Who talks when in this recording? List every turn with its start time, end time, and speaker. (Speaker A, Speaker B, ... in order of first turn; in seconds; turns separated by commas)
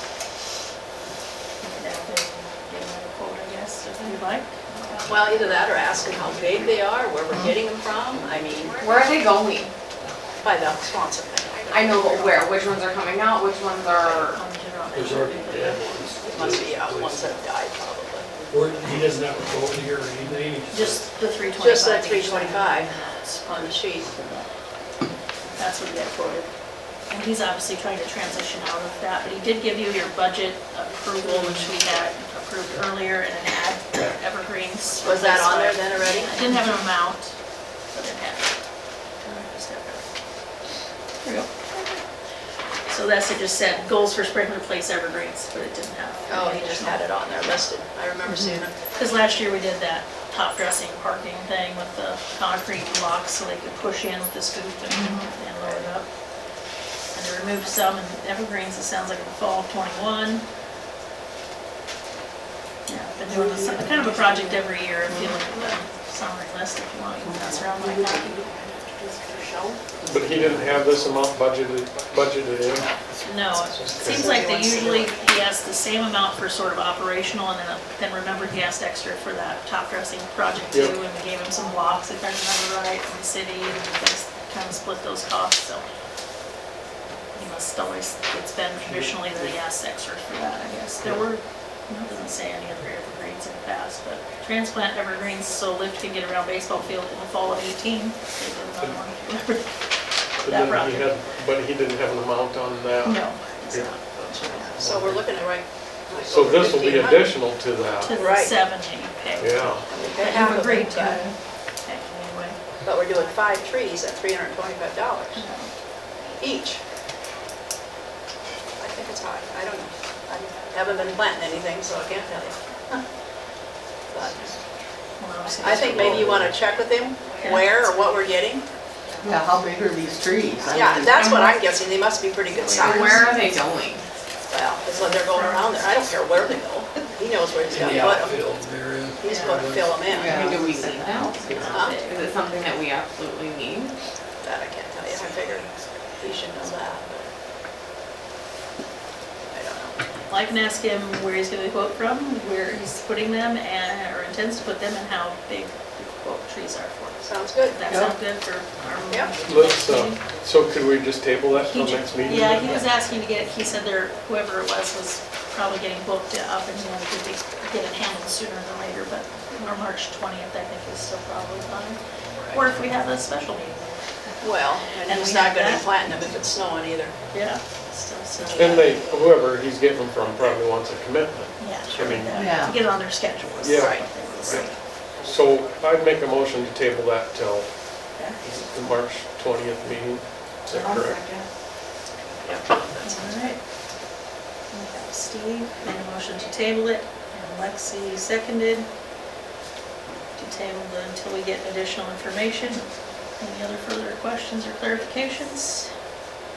Speaker A: 1.6-6.6, Speaker B: 5.1-8.9, Speaker C: 8.8-9.7, Speaker B: 10.4-12.4, Speaker C: 11.7-14.4, Speaker A: 14.1-15.9, Speaker D: 14.9-17.3, Speaker B: 16.2-18.3, Speaker D: 18.5-21.0, Speaker A: 20.7-24.5, Speaker B: 21.6-22.9, Speaker B: 23.5-24.1, Speaker A: 25.6-37.3, Speaker B: 35.0-36.4, Speaker A: 37.9-38.5, Speaker A: 39.2-40.0, Speaker A: 41.2-41.6, Speaker A: 42.9-47.0, Speaker B: 46.3-48.7, Speaker E: 48.3-48.6, Speaker A: 48.9-56.1, Speaker E: 54.9-55.3, Speaker A: 57.1-60.4, Speaker A: 62.9-68.4, Speaker E: 65.1-65.4, Speaker E: 67.2-67.7, Speaker F: 70.0-73.2, Speaker E: 70.1-70.7, Speaker A: 73.2-85.8, Speaker B: 73.4-75.1, Speaker F: 73.9-74.3, Speaker A: 87.3-99.9, Speaker F: 100.4-105.3, Speaker A: 100.4-101.1, Speaker A: 103.0-104.8, Speaker B: 104.8-107.3, Speaker F: 106.2-108.2, Speaker A: 108.0-112.6, Speaker B: 108.1-108.7, Speaker F: 109.4-109.9, Speaker B: 109.9-111.3, Speaker E: 111.0-111.3, Speaker B: 112.8-115.5, Speaker A: 115.3-115.7, Speaker B: 116.4-116.8, Speaker B: 118.8-123.0, Speaker B: 124.1-124.5, Speaker A: 125.2-126.3, Speaker B: 125.6-128.7, Speaker F: 125.7-126.5, Speaker A: 127.4-127.9, Speaker E: 129.2-131.2, Speaker B: 130.7-133.3, Speaker C: 131.1-131.6, Speaker C: 132.6-134.0, Speaker E: 132.8-133.3, Speaker B: 134.5-138.5, Speaker A: 135.1-135.9, Speaker D: 137.6-140.0, Speaker B: 139.2-140.5, Speaker A: 139.2-139.6, Speaker E: 140.1-141.7, Speaker C: 140.2-143.9, Speaker A: 141.5-142.2, Speaker B: 141.7-142.0, Speaker B: 144.4-147.3, Speaker B: 149.5-150.0, Speaker A: 150.3-160.2, Speaker B: 157.2-157.8, Speaker E: 157.9-158.2, Speaker F: 159.3-162.8, Speaker A: 161.6-175.9, Speaker B: 174.4-177.2, Speaker A: 177.3-179.1, Speaker B: 178.5-178.8, Speaker F: 178.5-182.4, Speaker A: 181.6-184.8, Speaker E: 182.3-182.8, Speaker F: 183.6-187.8, Speaker B: 183.8-184.3, Speaker F: 188.3-191.2, Speaker E: 190.8-191.5, Speaker B: 192.4-193.3, Speaker A: 193.0-193.6, Speaker A: 194.7-198.9, Speaker A: 200.3-205.9